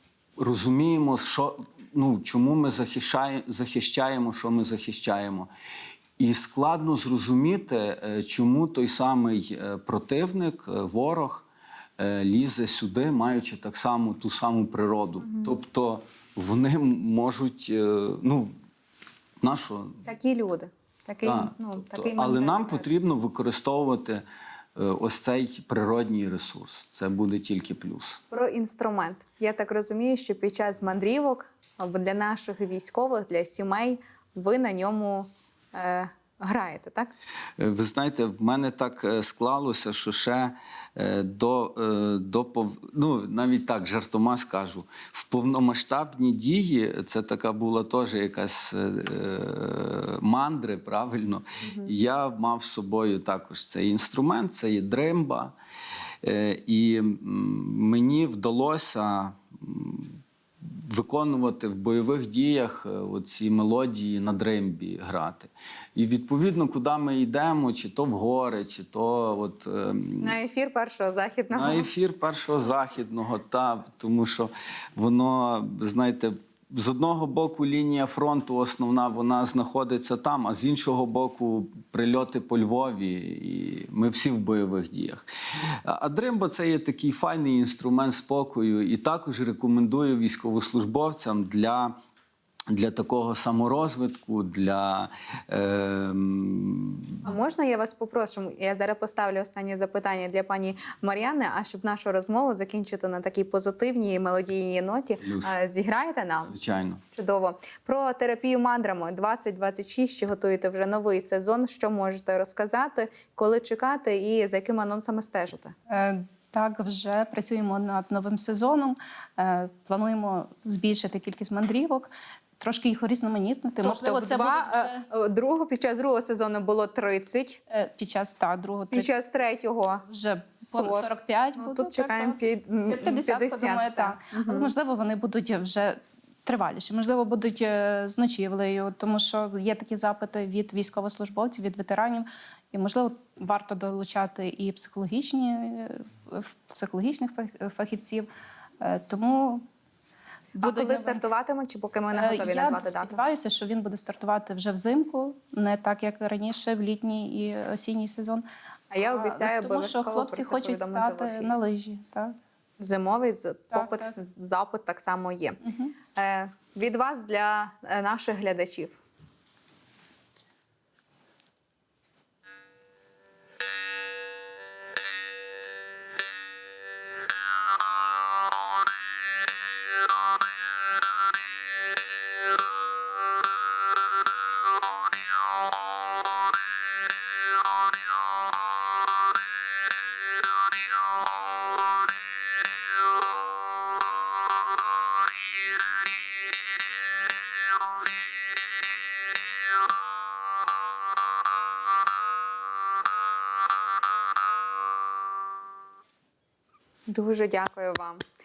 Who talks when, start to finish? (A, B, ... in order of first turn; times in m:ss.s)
0:00.4-0:05.5 A
0:06.2-0:11.5 A
0:12.0-0:18.5 A
0:15.2-0:15.5 B
0:19.4-0:20.0 A
0:20.0-0:22.9 B
0:21.2-0:24.2 A
0:24.8-0:28.2 A
0:28.3-0:37.1 B
0:37.6-0:55.6 A
0:56.2-1:10.4 A
1:10.2-1:11.9 B
1:11.5-1:32.0 A
1:32.7-1:37.2 A
1:37.2-1:46.5 B
1:45.2-1:45.6 A
1:46.4-1:47.0 A
1:47.1-1:55.7 B
1:55.9-2:05.0 C
2:03.8-2:07.6 B
2:07.7-2:09.2 C
2:08.9-2:10.0 B
2:10.1-2:12.4 C
2:10.7-2:11.1 B
2:11.6-2:14.7 B
2:12.9-2:28.3 C
2:28.8-2:29.6 C
2:30.6-2:33.2 B
2:30.6-2:31.2 C
2:32.1-2:38.4 C
2:38.9-2:41.5 B
2:39.0-2:42.4 C
2:42.8-2:45.6 B
2:43.7-2:44.1 C
2:46.2-2:49.0 B
3:27.1-3:28.2 B